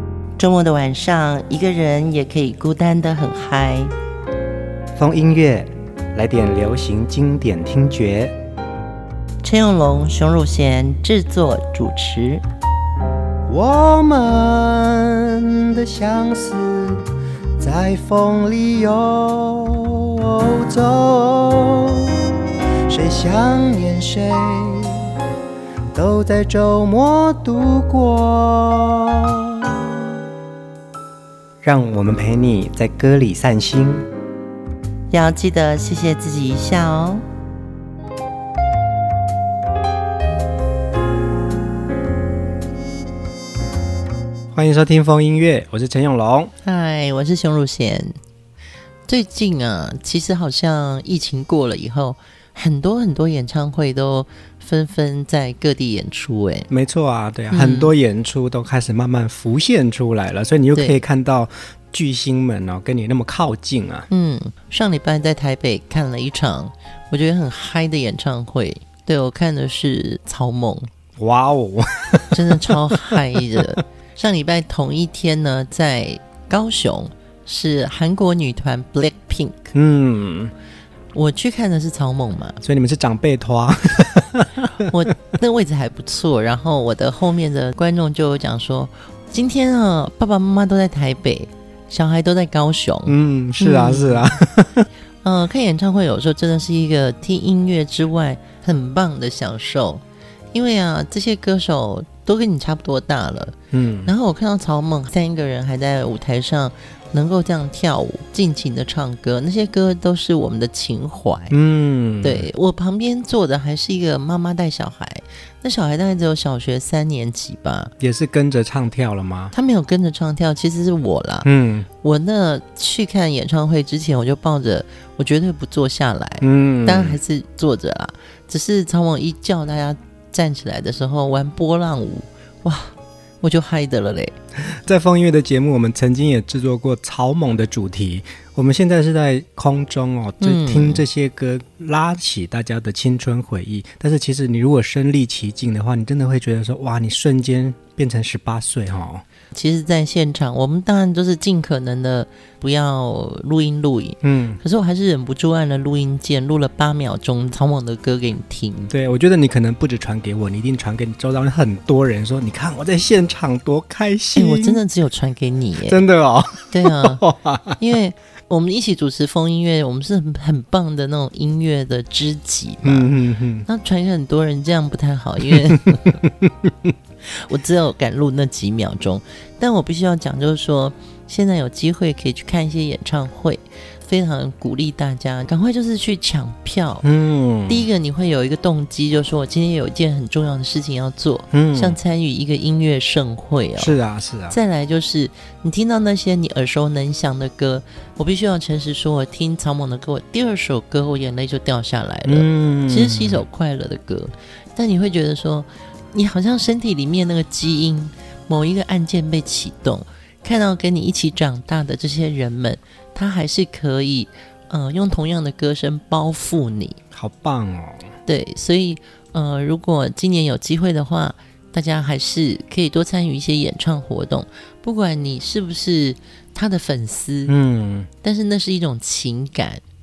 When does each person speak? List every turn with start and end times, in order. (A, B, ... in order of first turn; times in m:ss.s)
0:00.4-0:03.9 A
0:05.0-0:08.4 B
0:09.4-0:12.4 A
0:13.5-0:17.0 B
0:17.6-0:22.2 B
0:22.9-0:25.1 B
0:25.9-0:29.8 B
0:31.6-0:34.1 B
0:35.1-0:37.2 A
0:44.5-0:46.5 B
0:46.6-0:48.2 A
0:49.1-0:56.7 A
0:56.7-1:04.1 B
0:57.5-0:57.9 A
1:00.7-1:01.0 A
1:04.1-1:10.9 A
1:11.2-1:13.6 B
1:12.3-1:19.7 A
1:19.7-1:20.5 B
1:21.1-1:22.6 A
1:22.6-1:24.8 B
1:24.9-1:34.3 A
1:33.1-1:34.9 B
1:35.2-1:40.0 A
1:40.5-1:51.6 A
1:43.7-1:44.1 B
1:51.5-1:52.5 B
1:52.2-1:57.9 A
1:58.0-1:59.5 B
1:59.5-2:01.5 A
2:01.4-2:01.9 B
2:02.0-2:14.4 A
2:06.4-2:07.2 B
2:14.6-2:29.2 B
2:20.4-2:21.0 A
2:29.5-2:38.9 A
2:34.2-2:34.6 B
2:38.9-2:44.8 B
2:44.4-2:46.0 A
2:45.8-2:47.8 B
2:46.7-2:47.2 A
2:47.8-2:53.2 A
2:52.8-2:53.7 B
2:53.7-2:56.2 A
2:55.7-2:56.9 B
2:57.3-3:07.1 A
3:07.0-3:07.9 B
3:07.7-3:14.0 A
3:11.5-3:12.0 B
3:13.8-3:14.6 B
3:14.5-3:37.0 A
3:22.3-3:23.4 B
3:37.1-3:38.1 B
3:38.3-3:47.5 A
3:47.5-3:48.1 B
3:48.2-3:49.8 A